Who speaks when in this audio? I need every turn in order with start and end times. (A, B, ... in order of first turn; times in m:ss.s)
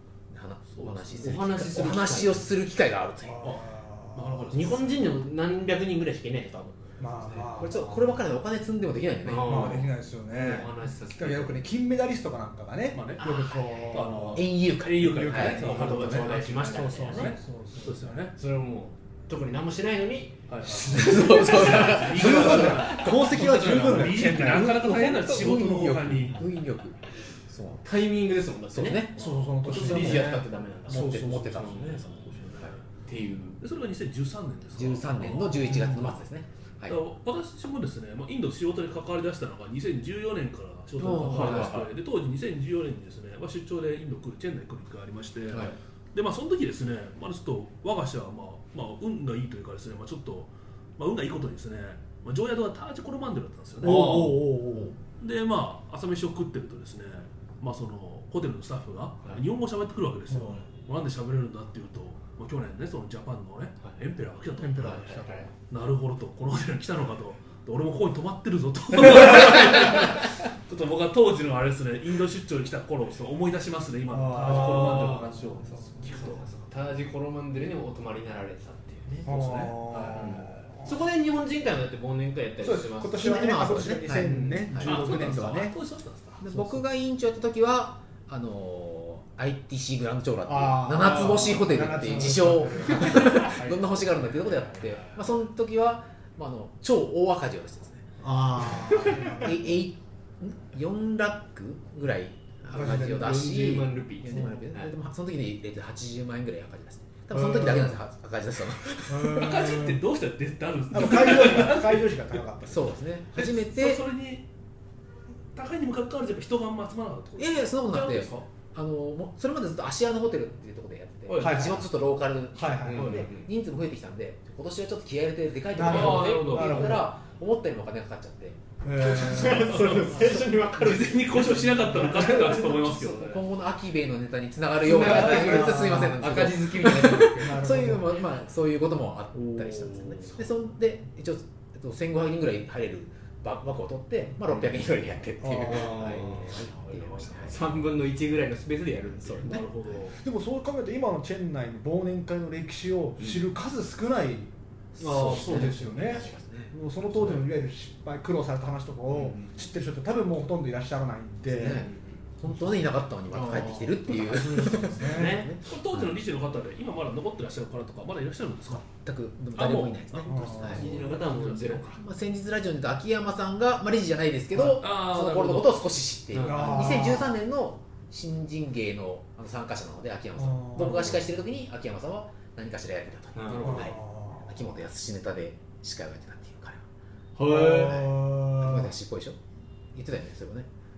0:00.3-0:03.5 A
0:00.7-0:01.4 B
0:01.2-0:02.5 C
0:03.2-0:04.6 D
0:03.4-0:05.0 B
0:04.5-0:07.4 C
0:07.0-0:08.2 D
0:07.4-0:09.8 A
0:09.2-0:11.6 C
0:09.4-0:18.3 D
0:12.9-0:13.2 B
0:13.2-0:16.6 A
0:13.9-0:18.3 B
0:15.4-0:17.3 C
0:18.4-0:22.9 C
0:20.5-0:26.5 B
0:20.8-0:21.3 D
0:20.9-0:23.4 A
0:22.1-0:24.9 D
0:24.3-0:27.8 A
0:26.0-0:26.4 D
0:27.8-0:29.1 C
0:28.7-0:29.2 A
0:29.2-0:32.8 B
0:29.2-0:31.6 D
0:29.6-0:32.1 C
0:31.0-0:32.7 A
0:33.0-0:33.6 C
0:33.6-0:36.2 B
0:34.7-0:37.0 A
0:35.6-0:36.1 D
0:36.9-0:54.4 B
0:41.0-0:41.9 A
0:41.1-0:41.9 C
0:45.5-0:45.8 A
0:53.8-0:54.9 D
0:53.8-0:54.5 C
0:55.2-1:16.4 B
1:00.3-1:00.6 D
1:04.6-1:05.5 D
1:04.8-1:05.5 C
1:14.1-1:15.9 D
1:14.4-1:25.2 C
1:19.2-1:20.5 B
1:19.2-1:20.9 D
1:22.6-1:25.7 D
1:23.2-1:25.5 A
1:24.7-1:26.4 B
1:26.4-1:38.0 A
1:26.5-1:26.8 D
1:30.4-1:33.4 D
1:32.9-1:35.0 B
1:38.2-1:39.7 D
1:38.6-1:49.7 A
1:42.7-1:43.4 D
1:42.9-1:44.9 C
1:47.3-1:48.0 D
1:49.1-1:50.0 D
1:49.3-1:52.2 B
1:50.9-1:52.9 D
1:52.6-1:54.0 A
1:53.3-1:54.4 B
1:55.5-1:58.4 B
1:57.4-2:08.6 A
2:01.3-2:01.8 B
2:01.4-2:01.8 D
2:02.5-2:03.2 D
2:02.8-2:03.5 C
2:03.0-2:03.3 B
2:05.7-2:07.1 D
2:05.8-2:07.0 B
2:05.8-2:06.9 C
2:08.8-2:10.3 D
2:09.0-2:12.7 C
2:09.3-2:13.4 B
2:12.0-2:12.3 D
2:12.1-2:27.6 A
2:14.8-2:17.7 C
2:15.0-2:16.2 D
2:17.2-2:18.1 D
2:19.3-2:20.4 B
2:25.4-2:26.6 D
2:25.9-2:26.5 C
2:25.9-2:27.6 B
2:27.4-2:29.6 C
2:29.2-2:29.6 A
2:29.4-2:30.2 B
2:30.2-2:41.8 D
2:35.0-2:36.2 C
2:35.1-2:37.4 A
2:39.2-2:39.5 C
2:41.5-2:46.1 A
2:41.8-2:42.2 C
2:43.3-2:45.5 C
2:44.7-2:45.4 D
2:45.6-2:48.9 B
2:48.7-2:50.8 A
2:49.5-2:51.8 B
2:50.2-2:50.9 D
2:50.6-2:52.0 C
2:52.0-3:06.8 A
2:54.7-2:55.9 B
2:56.3-2:57.1 C
2:56.4-2:57.4 D
3:00.4-3:01.1 D
3:03.3-3:03.9 C
3:03.5-3:03.8 B
3:03.6-3:04.6 D
3:07.4-3:08.2 C
3:07.4-3:08.9 D
3:08.6-3:09.4 A
3:09.9-3:10.7 A